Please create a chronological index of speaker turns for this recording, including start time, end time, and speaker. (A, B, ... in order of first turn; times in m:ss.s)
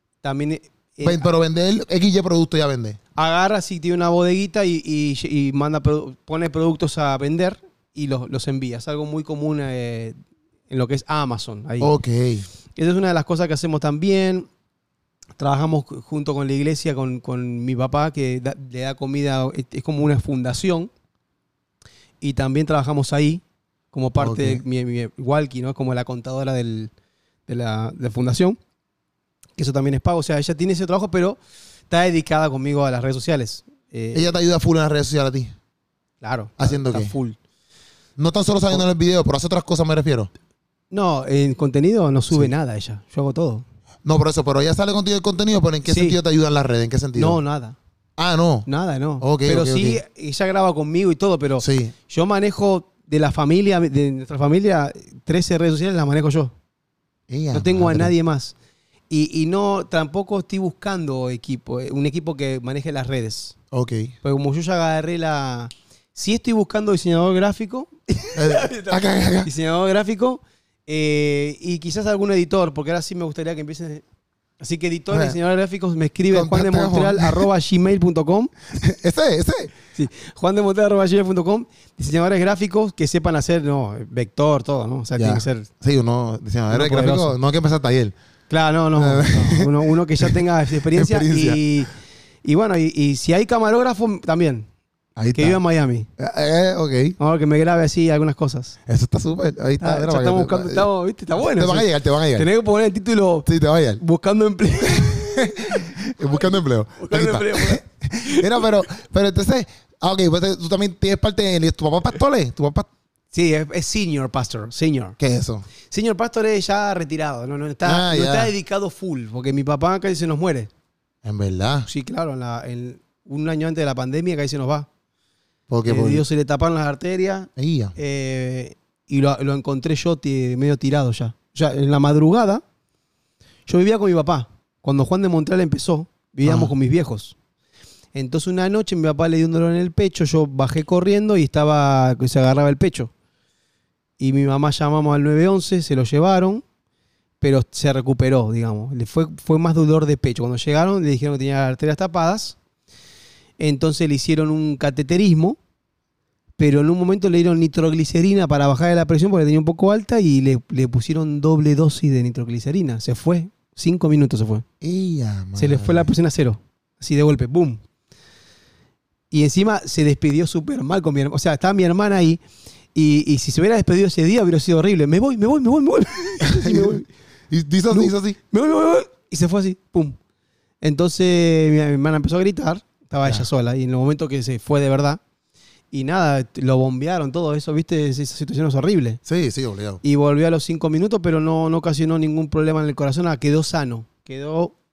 0:00.2-0:01.3 A
0:01.0-0:03.0 B
0:03.2-0:10.2 A
0:10.7-0:11.9 A
0:11.8-0:12.5 B
0:12.8-0:14.5 A
0:15.4-0:20.9 A
0:22.2-0:26.9 A
0:24.2-0:24.6 B
0:27.5-0:28.6 A
0:29.6-0:31.4 A
0:31.9-0:34.3 A
0:34.1-0:35.5 B
0:36.2-0:37.4 A
0:36.6-0:37.1 B
0:38.2-0:40.3 B
0:40.9-0:43.6 A
0:44.0-0:47.4 B
0:45.8-0:46.2 A
0:47.2-0:47.8 A
0:48.2-0:48.7 B
0:48.7-0:56.5 A
0:49.2-0:50.0 B
0:51.6-0:51.9 B
0:57.3-0:58.1 B
0:57.5-0:58.6 A
0:59.1-1:03.6 A
1:03.7-1:04.1 B
1:04.2-1:14.0 A
1:08.4-1:09.5 B
1:14.6-1:18.5 A
1:15.1-1:15.4 B
1:16.3-1:17.5 B
1:18.8-1:19.7 B
1:20.0-1:25.7 A
1:25.2-1:28.2 B
1:26.7-1:27.4 A
1:28.5-1:31.9 A
1:29.0-1:30.4 B
1:30.9-1:31.6 B
1:32.4-1:34.7 A
1:35.2-1:35.6 B
1:35.3-1:36.1 A
1:36.2-1:37.2 B
1:37.2-1:38.8 A
1:38.9-1:40.9 B
1:39.8-1:43.5 A
1:41.5-1:42.5 B
1:43.5-1:44.0 B
1:44.0-1:48.7 A
1:44.9-1:52.9 B
1:53.3-1:55.2 A
1:55.2-1:55.7 B
1:55.9-2:00.7 A
1:57.8-1:58.5 B
2:01.2-2:01.9 B
2:01.8-2:04.9 A
2:05.7-2:06.2 B
2:05.9-2:12.6 A
2:07.6-2:08.0 B
2:13.7-2:17.4 A
2:16.4-2:16.7 B
2:18.1-2:23.1 A
2:24.2-2:26.6 A
2:27.4-2:32.6 A
2:33.6-2:35.6 A
2:36.6-2:44.6 A
2:44.8-2:46.1 B
2:45.6-2:47.8 A
2:49.3-2:52.4 A
2:53.0-2:57.1 A
2:56.4-2:58.4 B
2:57.9-3:00.2 A
3:00.8-3:05.2 A
3:05.9-3:09.2 A
3:09.3-3:10.0 B
3:10.0-3:14.8 A